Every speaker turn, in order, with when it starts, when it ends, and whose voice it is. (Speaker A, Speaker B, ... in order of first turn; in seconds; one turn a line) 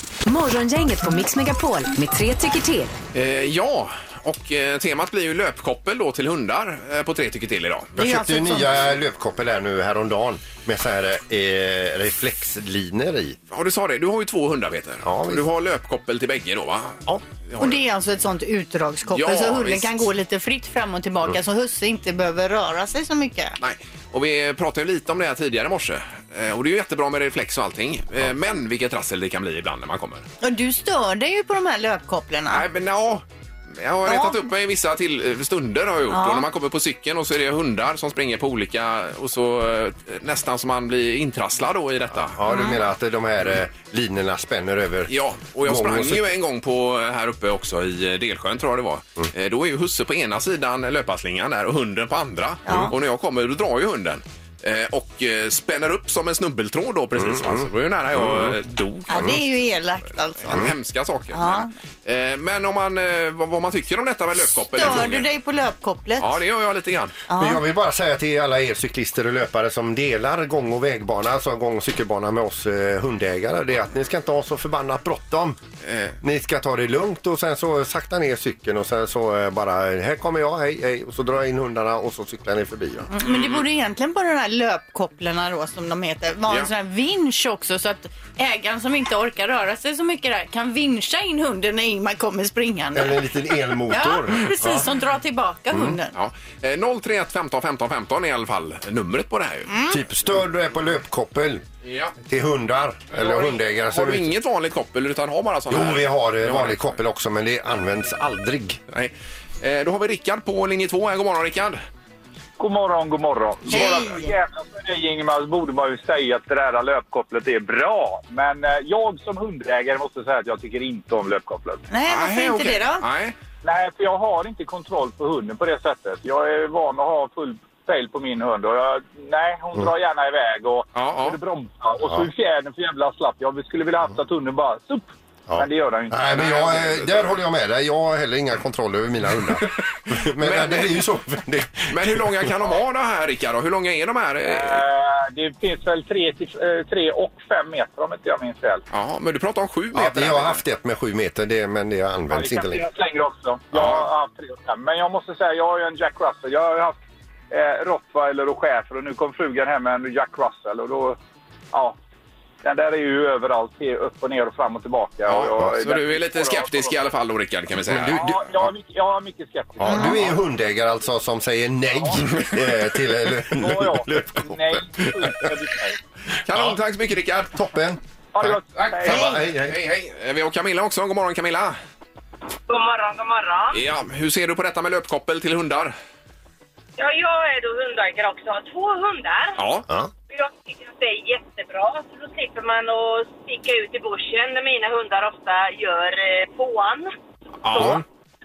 Speaker A: 0.2-2.9
Speaker B: 3.1-7.9
Speaker C: 8.0-13.4
Speaker D: 8.0-8.7
Speaker B: 13.5-17.8
Speaker C: 15.0-15.4
Speaker D: 17.6-23.6
Speaker B: 19.1-20.0
Speaker B: 23.6-30.2
Speaker D: 30.4-32.6
Speaker B: 32.5-42.4
Speaker D: 34.1-34.4
Speaker D: 36.1-36.4
Speaker C: 42.3-45.1
Speaker D: 42.5-42.8
Speaker B: 45.1-59.4
Speaker C: 45.6-46.3
Speaker D: 52.6-52.9
Speaker C: 57.2-58.5
Speaker D: 59.1-60.6
Speaker B: 60.4-65.3
Speaker D: 61.3-61.7
Speaker D: 64.7-66.4
Speaker B: 66.2-67.2
Speaker D: 67.3-67.6
Speaker C: 67.4-75.6
Speaker B: 75.8-76.2
Speaker C: 76.2-83.1
Speaker D: 83.1-93.2
Speaker B: 83.2-83.6
Speaker C: 92.9-94.8
Speaker D: 93.9-96.1
Speaker B: 96.1-99.7
Speaker D: 99.7-100.0
Speaker C: 99.9-101.6
Speaker B: 101.8-102.2
Speaker C: 102.2-104.3
Speaker B: 103.1-107.0
Speaker C: 105.7-108.8
Speaker B: 108.9-111.8
Speaker E: 112.6-121.8
Speaker D: 113.7-114.3
Speaker D: 121.9-123.0
Speaker B: 122.1-123.3
Speaker E: 123.6-136.5
Speaker B: 130.9-131.4
Speaker C: 135.5-142.5
Speaker B: 136.3-137.4
Speaker B: 140.1-141.1
Speaker B: 141.8-144.8
Speaker E: 144.4-148.8
Speaker B: 148.9-150.6
Speaker C: 149.9-152.8
Speaker E: 152.3-157.0
Speaker B: 153.7-154.0
Speaker E: 157.5-161.2
Speaker E: 162.6-166.9
Speaker B: 165.2-168.4
Speaker C: 167.9-168.3
Speaker E: 168.0-170.4
Speaker C: 169.8-175.5
Speaker E: 171.9-172.2
Speaker E: 173.5-176.0
Speaker B: 176.4-177.5
Speaker C: 176.5-176.8
Speaker C: 177.5-179.8
Speaker E: 178.3-179.4
Speaker B: 178.8-181.8
Speaker F: 182.7-183.8
Speaker B: 183.7-185.9
Speaker F: 187.0-189.6
Speaker B: 189.6-189.8
Speaker F: 190.3-197.1
Speaker B: 197.6-198.0
Speaker F: 197.7-198.0
Speaker C: 197.7-198.0